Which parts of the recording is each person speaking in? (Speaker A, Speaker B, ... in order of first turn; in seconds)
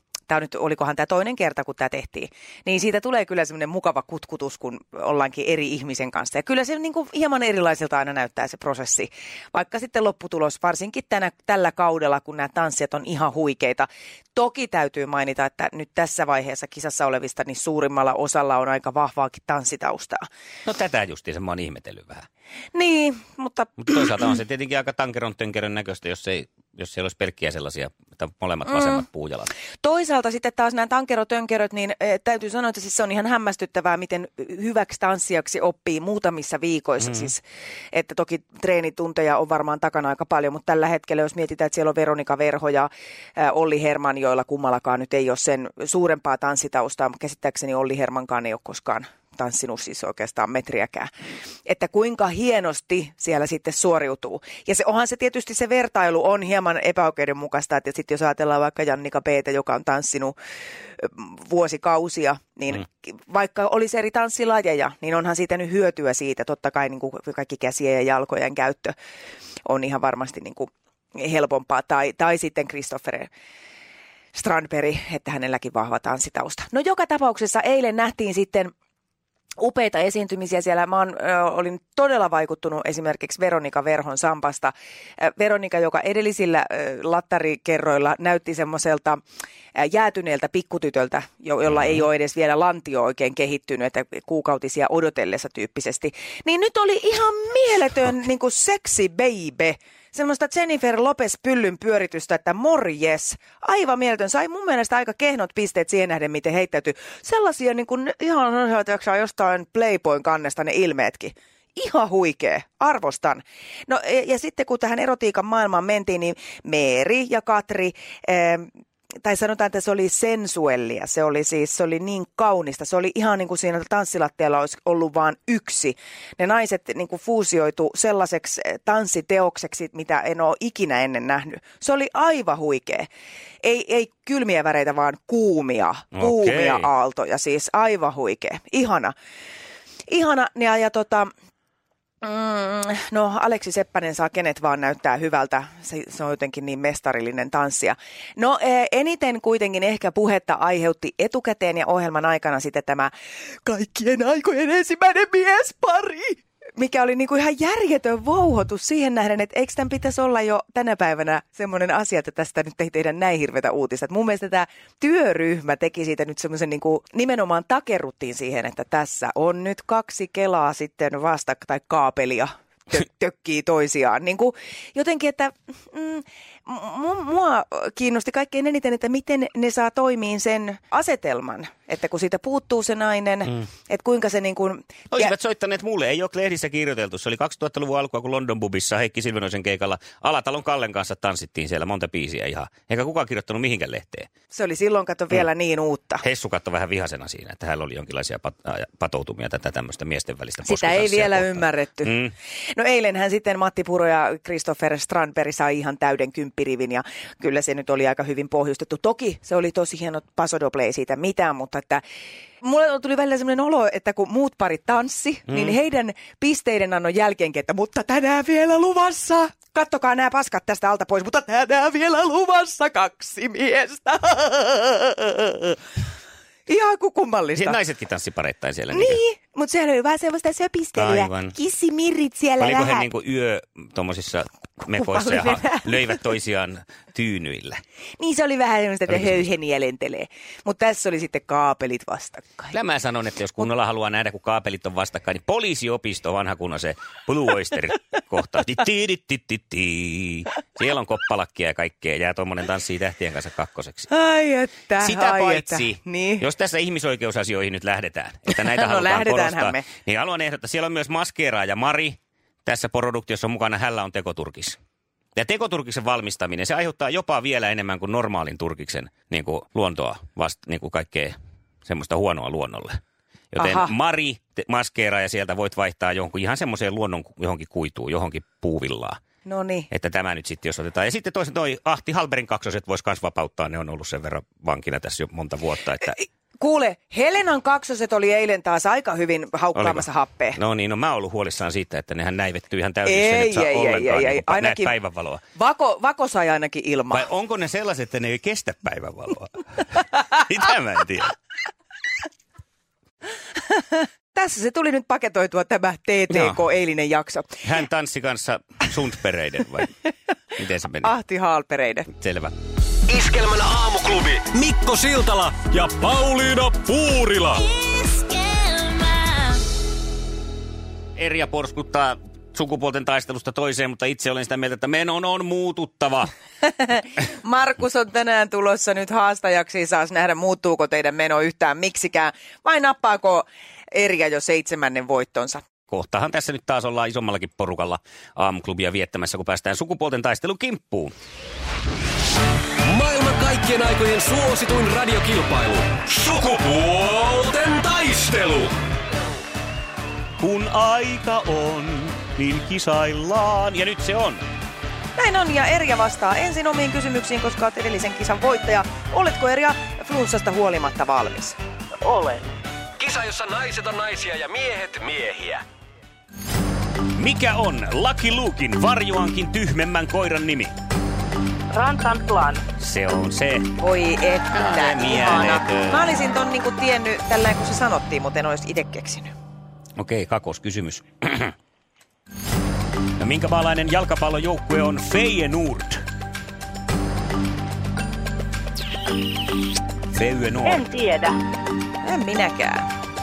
Speaker A: 0.3-20.2, 22.7-24.4, 28.7-29.0, 29.8-51.1, 51.6-60.4, 61.0-68.9, 69.6-73.3, 74.3-78.7, 79.6-89.2, 89.7-118.7, 119.2-133.1, 133.6-139.1, 140.1-141.3, 142.2-153.1, 153.6-185.3, 194.5-196.2, 200.6-202.2, 202.7-212.0, 212.6-225.8, 226.7-227.8, 228.9-233.1, 234.9-236.2, 238.2-242.8, 254.1-256.5, 258.5-259.9, 273.6-273.9, 279.4-279.9, 286.6-290.6, 293.0-294.9, 295.5-297.3, 303.7-307.6, 311.0-312.1, 326.6-335.6, 355.1-361.6, 373.8-379.3, 392.0-392.9
Speaker B: 20.6-22.2, 23.8-29.5, 37.0-37.3, 136.1-136.9, 185.1-194.3, 196.2-202.3, 215.5-215.8, 227.6-229.2, 231.0-231.5, 232.6-237.8, 239.1-239.4, 242.7-254.1, 255.0-264.8, 265.4-273.0, 273.5-279.2, 279.9-286.2, 289.7-295.4, 297.1-301.4, 306.3-306.6, 307.6-310.0, 310.6-311.1, 312.1-312.5, 321.1-326.3, 335.9-341.1, 350.4-354.4, 367.1-370.7, 372.8-373.7, 374.5-376.1, 380.0-381.5, 383.2-386.0, 390.1-391.0
Speaker C: 313.1-317.8, 342.8-348.8, 363.0-365.6
Speaker D: 362.0-362.5, 371.7-372.6, 390.6-391.4